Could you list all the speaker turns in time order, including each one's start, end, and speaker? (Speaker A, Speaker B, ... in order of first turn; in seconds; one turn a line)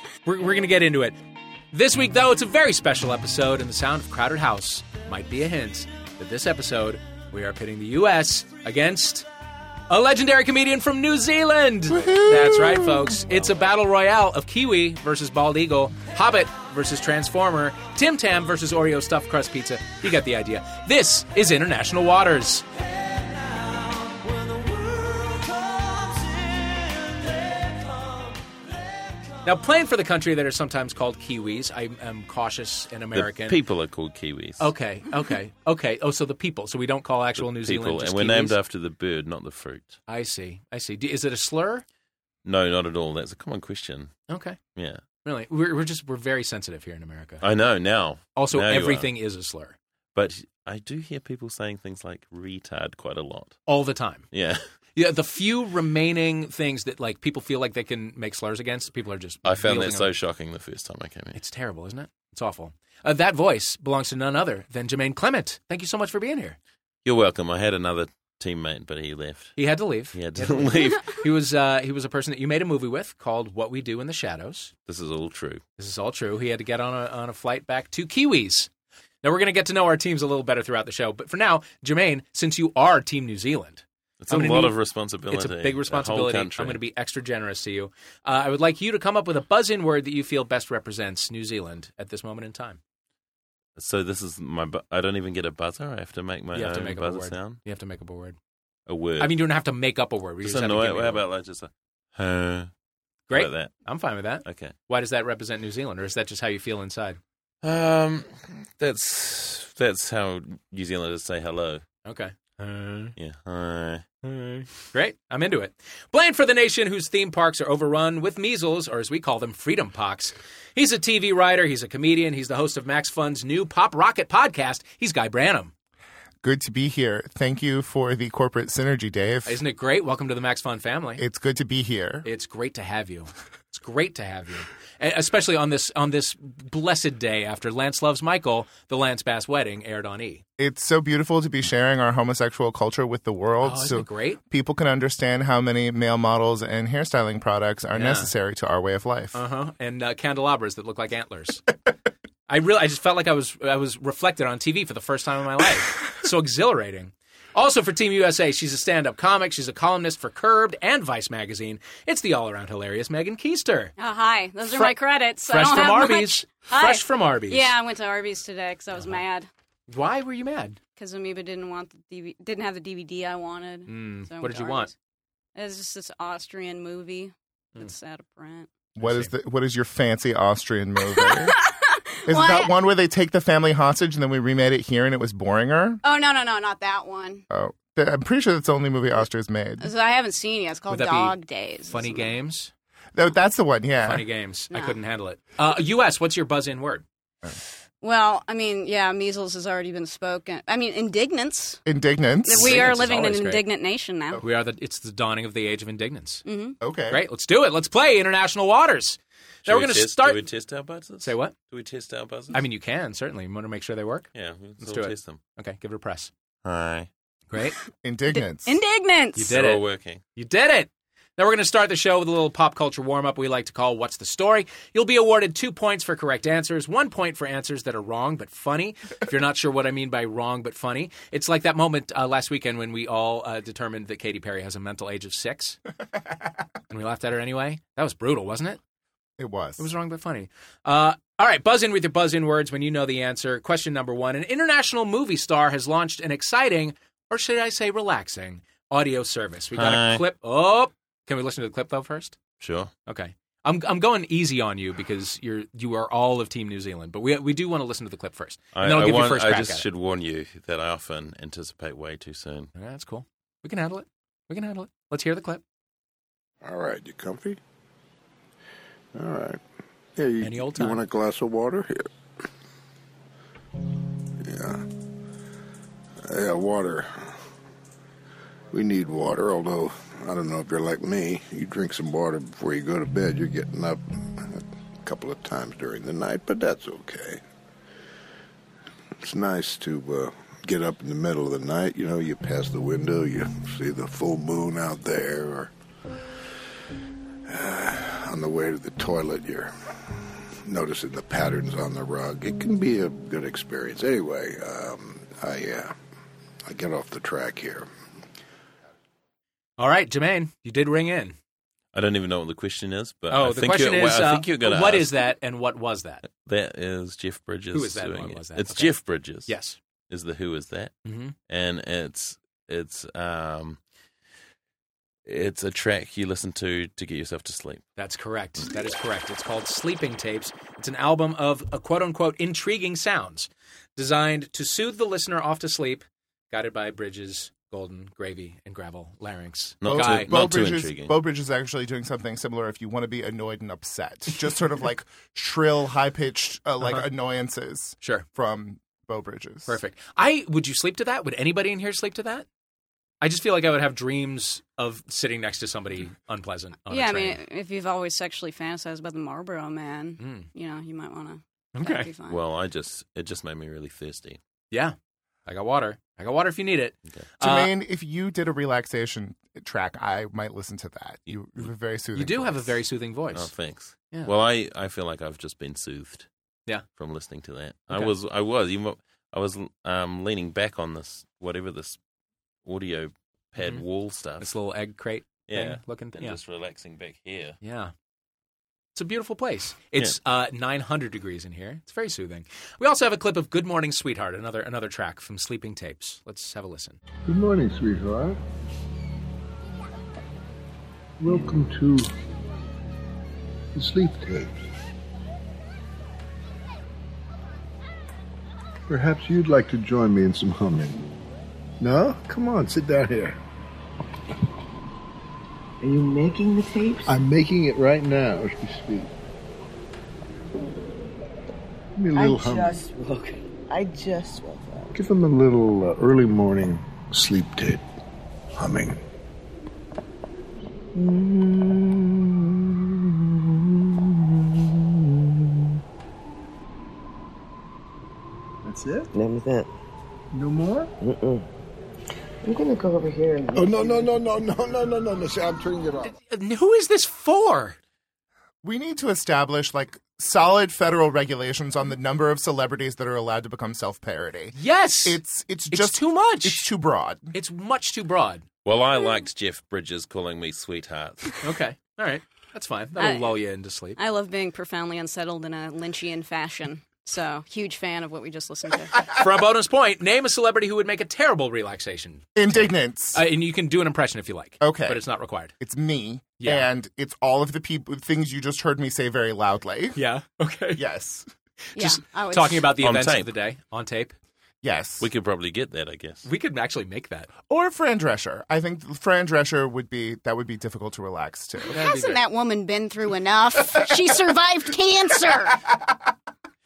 Speaker A: 0.2-1.2
Speaker A: 1.7-9.2
Speaker A: 9.9-22.6
Speaker B: 11.9-13.1
Speaker A: 29.4-33.6
Speaker C: 33.1-34.7
Speaker A: 34.6-38.6
Speaker C: 37.4-40.0
Speaker A: 40.1-41.8
Speaker C: 42.4-44.1
Speaker A: 44.3-44.6
Speaker C: 44.7-45.0
Speaker A: 45.2-47.4
Speaker C: 47.4-49.1
Speaker A: 48.4-49.8
Speaker C: 50.1-53.6
Speaker A: 53.7-54.3
Speaker C: 54.3-54.6
Speaker A: 54.9-60.1
Speaker C: 59.4-61.4
Speaker A: 61.3-66.6
Speaker C: 67.0-69.6
Speaker A: 69.5-74.7
Speaker C: 70.1-71.2
Speaker C: 74.9-75.6
Speaker A: 75.8-78.7
Speaker A: 79.2-84.8
Speaker C: 84.2-86.8
Speaker A: 85.3-92.8
Speaker C: 93.8-97.6
Speaker A: 96.5-98.4
Speaker C: 98.9-99.4
Speaker A: 99.2-101.2
Speaker C: 100.4-102.7
Speaker A: 103.3-107.2
Speaker C: 103.3-103.8
Speaker C: 104.4-104.7
Speaker C: 107.6-111.8
Speaker A: 112.0-113.1
Speaker C: 113.2-114.0
Speaker A: 114.2-125.7
Speaker B: 126.4-129.6
Speaker A: 129.4-131.2
Speaker B: 131.2-132.2
Speaker A: 132.2-140.4
Speaker B: 140.6-149.4
Speaker A: 143.6-144.4
Speaker A: 147.9-148.3
Speaker A: 149.3-151.6
Speaker A: 152.5-163.9
Speaker D: 164.0-169.5
Speaker A: 164.7-164.9
Speaker A: 165.5-167.7
Speaker A: 169.9-170.8
Speaker D: 171.0-174.9
Speaker A: 173.9-174.9
Speaker D: 175.6-178.7
Speaker B: 179.0-181.6
Speaker A: 179.0-179.3
Speaker D: 181.1-182.7
Speaker B: 182.3-186.0
Speaker D: 186.0-187.4
Speaker B: 187.5-189.9
Speaker D: 189.8-192.3
Speaker A: 190.9-191.3
Speaker A: 191.9-192.7
Speaker B: 193.1-194.3
Speaker A: 194.0-197.0
Speaker D: 194.7-195.0
Speaker D: 198.0-201.8
Speaker B: 201.8-202.9
Speaker D: 202.4-204.4
Speaker A: 202.5-203.6
Speaker A: 204.4-206.4
Speaker D: 206.4-206.8
Speaker B: 206.8-207.2
Speaker A: 207.1-210.5
Speaker C: 209.7-212.6
Speaker A: 211.2-211.5
Speaker A: 212.5-216.3
Speaker C: 214.3-215.4
Speaker C: 216.6-217.1
Speaker A: 217.5-217.8
Speaker B: 218.0-218.8
Speaker D: 218.3-219.5
Speaker A: 219.3-219.8
Speaker C: 219.5-220.2
Speaker A: 220.3-235.8
Speaker A: 236.9-238.8
Speaker B: 239.4-239.9
Speaker A: 239.8-252.4
Speaker C: 249.7-250.2
Speaker C: 252.6-252.9
Speaker A: 253.1-259.8
Speaker C: 258.7-262.7
Speaker A: 262.7-265.6
Speaker E: 266.6-267.6
Speaker E: 269.1-269.6
Speaker E: 270.1-272.1
Speaker A: 270.4-271.0
Speaker E: 274.4-274.8
Speaker E: 276.2-277.3
Speaker E: 278.7-287.4
Speaker E: 289.2-295.7
Speaker E: 297.5-299.7
Speaker E: 300.6-305.9
Speaker E: 306.6-307.9
Speaker A: 309.8-311.4
Speaker C: 311.9-315.2
Speaker A: 313.3-316.2
Speaker C: 316.2-319.5
Speaker A: 317.7-319.8
Speaker C: 320.1-320.9
Speaker A: 321.0-321.3
Speaker C: 321.5-323.8
Speaker C: 325.2-327.8
Speaker A: 328.0-340.3
Speaker C: 339.8-341.1
Speaker B: 339.9-349.8
Speaker A: 349.6-352.4
Speaker A: 353.2-357.4
Speaker D: 356.9-362.4
Speaker A: 360.2-360.5
Speaker A: 361.7-362.1
Speaker C: 362.3-364.4
Speaker A: 365.4-367.7
Speaker B: 367.4-372.7
Speaker C: 371.3-371.7
Speaker A: 372.1-373.5
Speaker C: 373.3-376.3
Speaker C: 376.9-382.0
Speaker C: 382.6-384.5
Speaker A: 383.6-383.8
Speaker A: 384.4-386.4
Speaker C: 385.5-387.6
Speaker A: 387.6-387.9
Speaker A: 388.9-397.0
Speaker E: 397.2-398.4
Speaker E: 401.2-402.1
Speaker E: 403.7-404.5
Speaker E: 408.9-411.0
Speaker E: 411.8-413.4
Speaker F: 415.8-417.1
Speaker E: 417.1-419.1
Speaker E: 421.9-422.8
Speaker F: 422.1-424.9
Speaker E: 424.9-427.8
Speaker E: 428.6-429.0
Speaker F: 430.9-431.9
Speaker E: 438.6-439.1
Speaker F: 439.1-439.7
Speaker E: 440.3-440.9
Speaker F: 441.0-441.4
Speaker F: 442.4-444.1
Speaker E: 443.5-446.1
Speaker A: 446.0-447.8
Speaker B: 448.6-457.3
Speaker A: 454.5-456.7
Speaker A: 457.3-458.4
Speaker C: 458.6-461.4
Speaker A: 461.4-464.0
Speaker D: 463.0-463.4
Speaker D: 463.9-469.1
Speaker A: 469.1-475.5
Speaker B: 472.4-473.2
Speaker B: 474.6-475.0
Speaker B: 475.6-480.0
Speaker A: 476.4-476.7
Speaker A: 479.9-480.8
Speaker B: 480.7-481.3
Speaker A: 481.7-484.1
Speaker D: 481.8-482.7
Speaker C: 482.8-483.3
Speaker B: 484.6-485.1
Speaker C: 485.0-486.2
Speaker A: 486.2-487.3
Speaker B: 487.5-491.8
Speaker A: 491.7-492.2
Speaker D: 491.7-495.6